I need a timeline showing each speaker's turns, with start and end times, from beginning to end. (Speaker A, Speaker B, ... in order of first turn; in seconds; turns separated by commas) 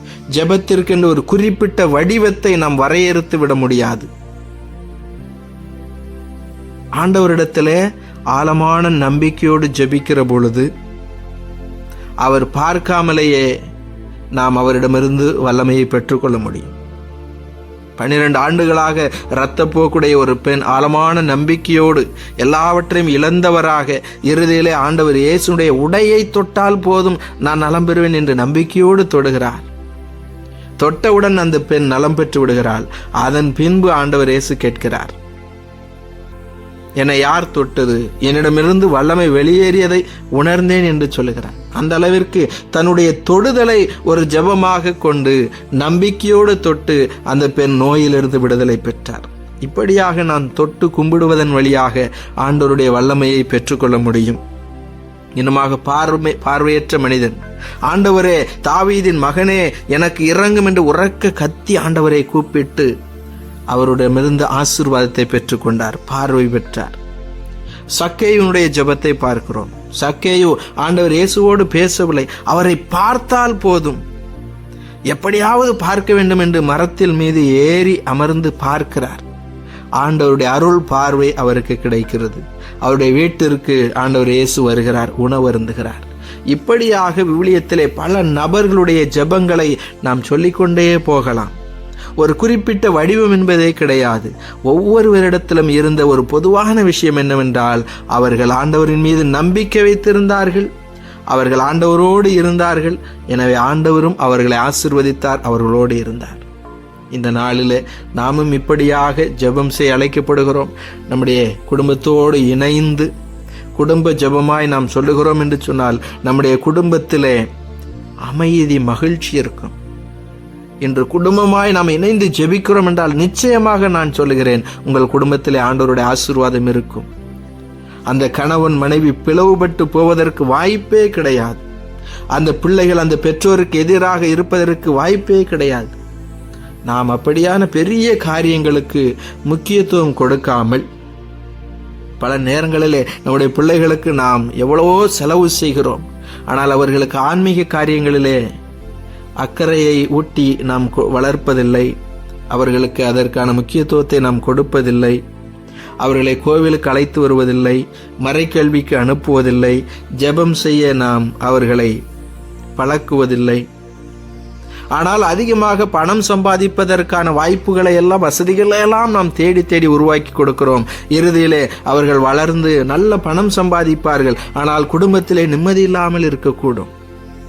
Speaker A: 0.3-4.1, Speaker A: 7.0-7.8, Speaker A: 8.3-10.7, Speaker A: 12.2-13.5, Speaker A: 14.3-16.7, Speaker A: 18.0-29.7, Speaker A: 30.8-35.1, Speaker A: 37.0-54.4, Speaker A: 55.4-62.9, Speaker A: 63.7-67.0, Speaker A: 67.9-74.0, Speaker A: 75.1-79.2, Speaker A: 80.0-91.5, Speaker A: 92.2-100.7, Speaker A: 101.3-106.4, Speaker A: 107.1-113.1, Speaker A: 113.7-117.4, Speaker A: 118.2-119.7, Speaker A: 120.8-127.1, Speaker A: 128.1-131.6, Speaker A: 132.3-136.0, Speaker A: 136.9-140.8, Speaker A: 142.2-148.4, Speaker A: 149.4-151.9, Speaker A: 152.5-155.2, Speaker A: 156.0-162.0, Speaker A: 162.8-163.6, Speaker A: 164.9-176.9